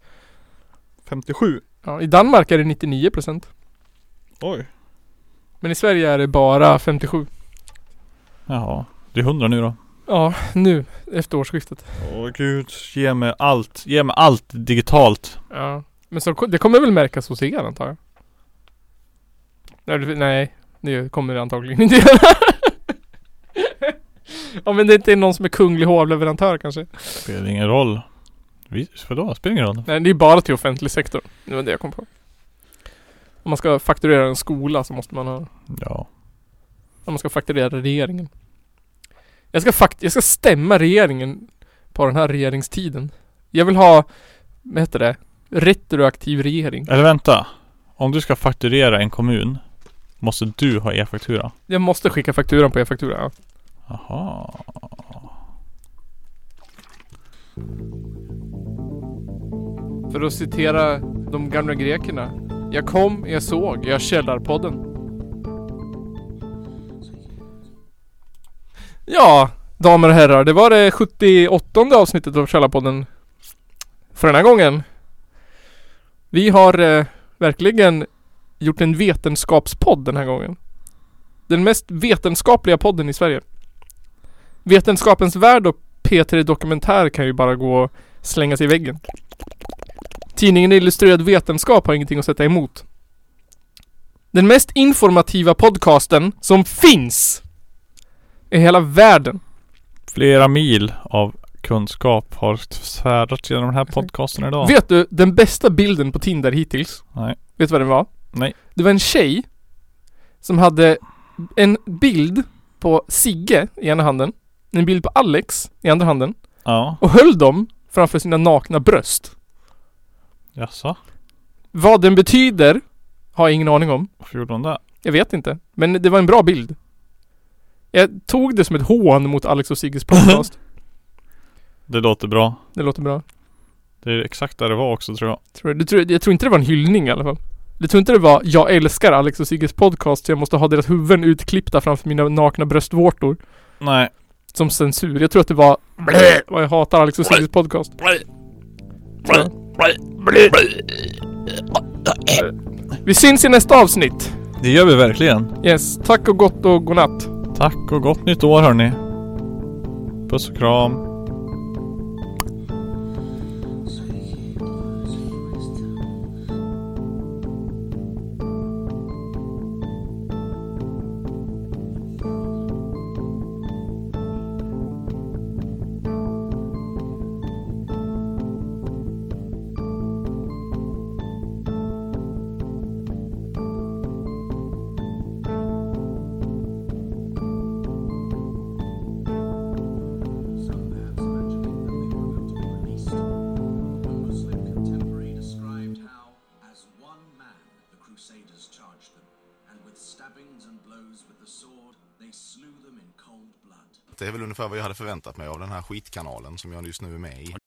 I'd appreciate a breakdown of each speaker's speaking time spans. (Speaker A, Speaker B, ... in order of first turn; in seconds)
Speaker A: 1.0-1.6, 4.4-4.7, 8.5-9.8, 12.0-15.4, 27.1-28.0, 28.7-29.9, 35.7-36.1, 46.9-49.6, 50.2-51.5, 53.9-55.0, 100.1-104.7, 107.1-107.4, 116.6-117.0, 120.5-121.0, 124.2-124.8, 131.9-132.6, 134.0-135.4, 143.8-144.1, 149.3-151.1, 154.6-155.5, 157.5-159.0, 160.3-161.0
Speaker B: 1.8-3.5, 5.6-7.3, 10.1-11.9, 15.5-18.0, 19.9-22.8, 23.6-26.9, 29.9-32.1, 33.4-35.5, 37.0-38.3, 39.5-44.1, 44.6-46.9, 51.7-53.3, 60.1-64.8, 69.1-73.1, 74.1-74.8, 76.3-80.6, 81.5-83.4, 84.6-89.0, 90.3-92.8, 94.3-97.4, 98.5-99.4, 104.6-109.6, 110.4-119.3, 121.7-124.1, 125.0-126.8, 127.9-130.6, 132.7-133.2, 135.5-143.4, 144.5-148.0, 149.2-149.5, 153.0-154.3, 155.6-157.3
Speaker C: 190.6-193.3, 194.0-204.0
Speaker D: 204.1-207.6